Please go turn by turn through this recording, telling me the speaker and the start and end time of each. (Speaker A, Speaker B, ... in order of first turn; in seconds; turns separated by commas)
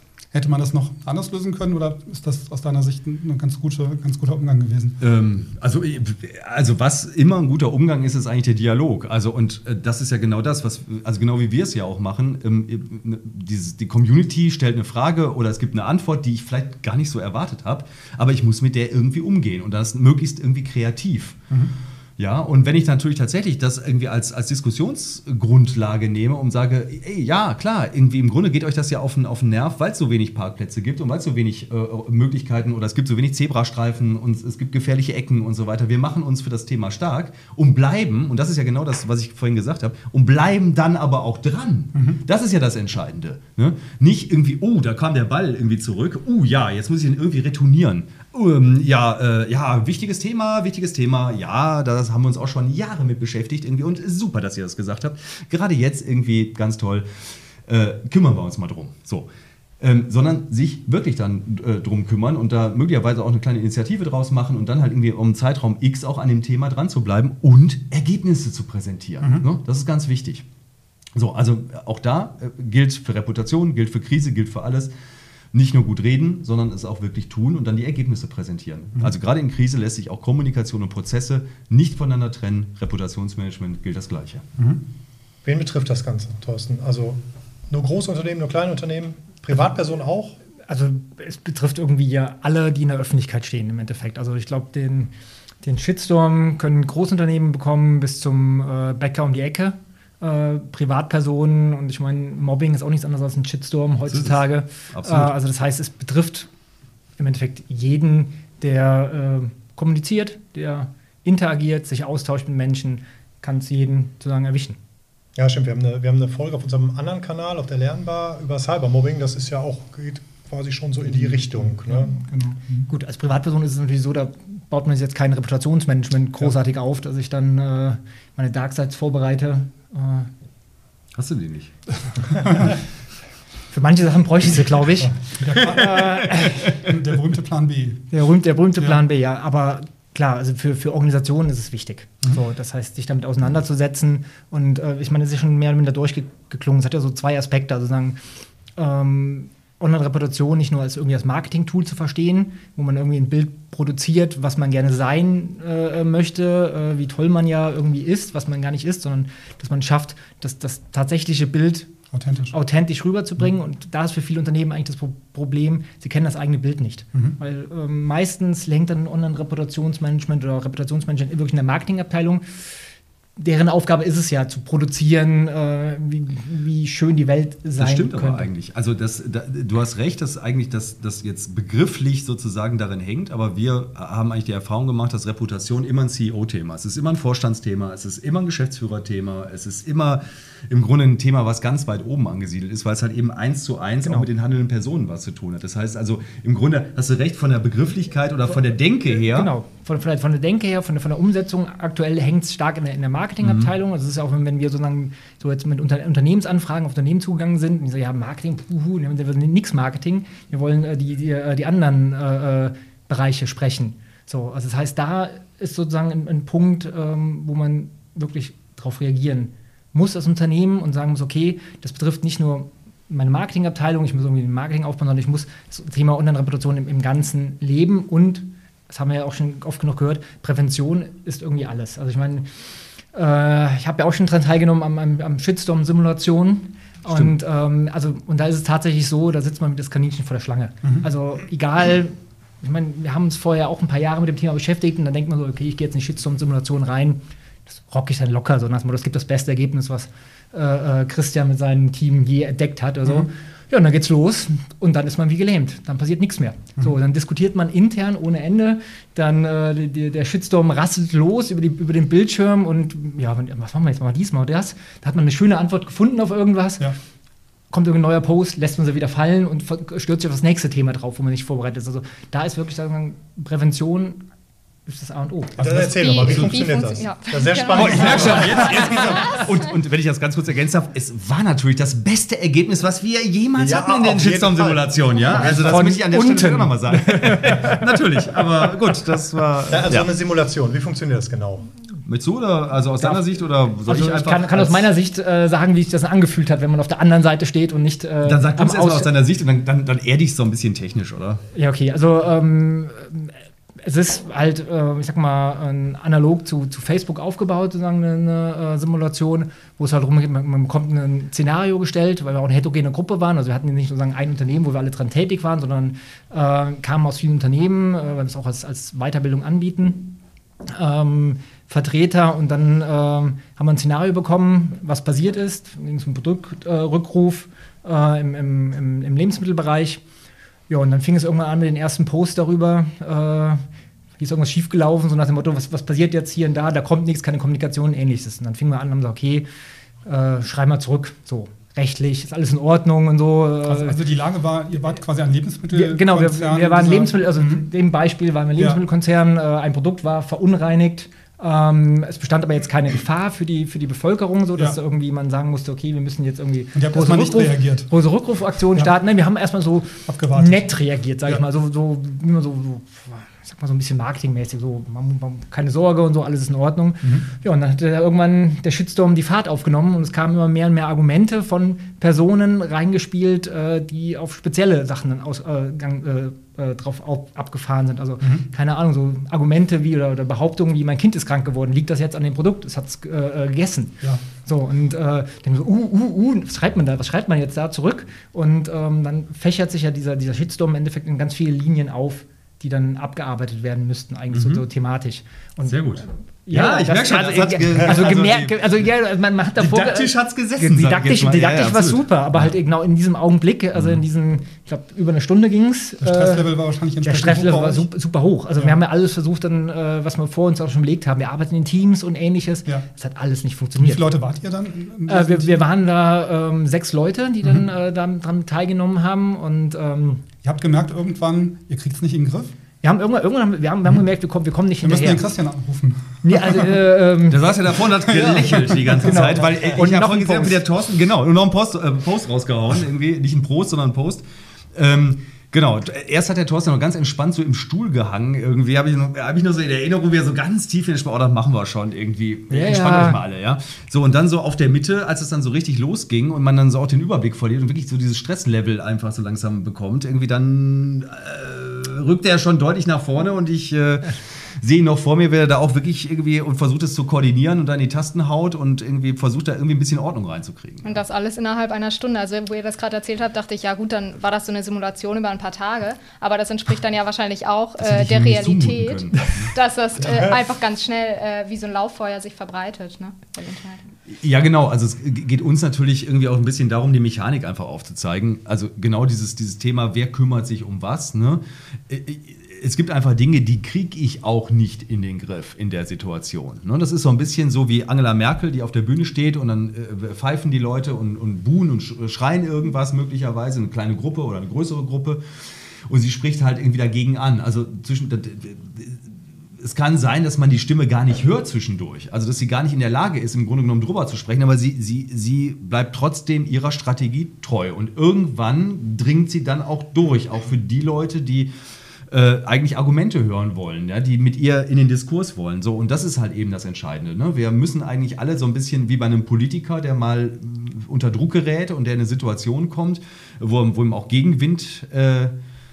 Speaker A: 0.3-5.0, Speaker B: 5.0-21.4, Speaker B: 22.2-57.1, Speaker A: 41.9-42.2, Speaker B: 57.7-59.3, Speaker B: 59.8-70.4, Speaker B: 71.1-74.9, Speaker B: 75.5-84.5, Speaker C: 85.4-90.3, Speaker D: 90.7-95.1, Speaker D: 95.6-106.5, Speaker B: 104.1-105.3, Speaker D: 107.2-114.8, Speaker C: 115.3-122.1, Speaker A: 121.0-122.9, Speaker D: 122.9-130.3, Speaker B: 131.1-131.7, Speaker A: 132.3-132.8, Speaker D: 133.7-136.9, Speaker A: 135.4-138.1, Speaker B: 135.6-136.1, Speaker D: 138.1-148.2, Speaker D: 148.7-161.9, Speaker A: 162.1-162.5, Speaker D: 162.5-172.7, Speaker D: 173.4-178.5, Speaker B: 177.8-199.5, Speaker D: 199.1-232.5, Speaker B: 203.4-203.7, Speaker D: 233.1-266.9, Speaker D: 267.7-274.2, Speaker D: 274.9-276.4, Speaker C: 275.6-279.4, Speaker A: 275.6-275.9, Speaker E: 275.8-279.6, Speaker B: 277.7-290.1, Speaker D: 277.8-279.4, Speaker C: 283.6-285.5, Speaker D: 285.3-288.6, Speaker C: 289.7-291.7, Speaker B: 292.0-294.9, Speaker D: 293.0-299.1, Speaker B: 298.2-301.4, Speaker D: 301.5-320.1, Speaker D: 320.6-330.0, Speaker D: 330.7-333.6, Speaker D: 334.2-339.4, Speaker D: 340.1-344.0, Speaker A: 343.6-347.7, Speaker D: 345.7-395.9, Speaker A: 348.6-348.8, Speaker A: 356.7-357.9, Speaker A: 360.1-360.7, Speaker B: 394.3-394.6, Speaker B: 395.6-398.8, Speaker D: 396.4-406.5, Speaker B: 399.6-402.5, Speaker B: 403.8-404.0, Speaker A: 406.0-407.9, Speaker D: 407.0-414.1, Speaker A: 413.8-415.7, Speaker D: 415.1-420.2, Speaker A: 420.4-422.5, Speaker D: 422.8-425.2, Speaker A: 424.8-426.8, Speaker D: 426.2-427.4, Speaker B: 427.3-461.0, Speaker A: 428.0-429.2, Speaker D: 429.0-430.6, Speaker D: 442.5-443.2, Speaker E: 460.8-473.9, Speaker B: 467.8-469.5, Speaker C: 470.0-470.4, Speaker B: 474.1-495.2, Speaker B: 495.9-511.5, Speaker B: 512.1-525.3